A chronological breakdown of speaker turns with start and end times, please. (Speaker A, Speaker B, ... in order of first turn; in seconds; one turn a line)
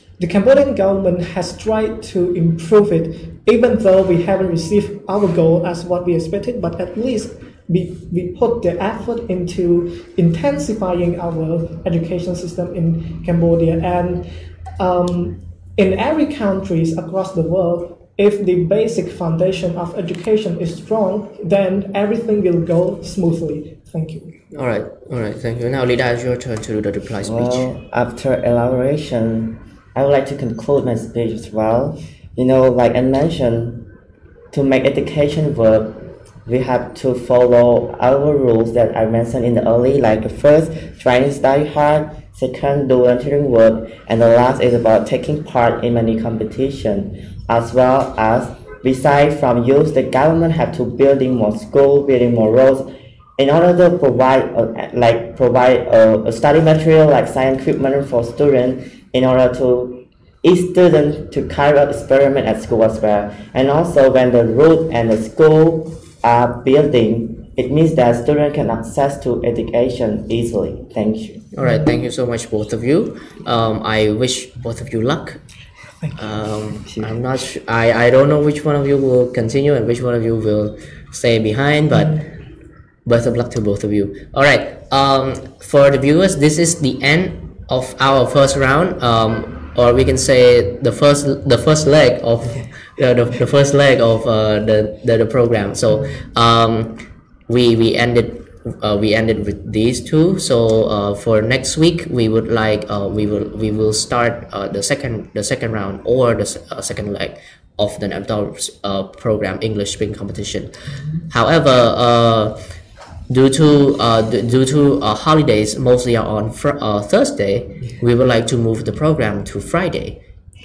Speaker A: 0.2-14.3
Speaker A: 14.8-24.4
Speaker B: 24.5-27.7
Speaker C: 27.2-33.9
Speaker C: 34.5-71.5
Speaker B: 71.5-75.4
Speaker A: 71.6-71.9
Speaker B: 76.2-82.2
Speaker C: 76.8-77.5
Speaker A: 81.9-82.2
Speaker B: 83.1-110.7
Speaker B: 111.3-112.6
Speaker B: 113.3-120.2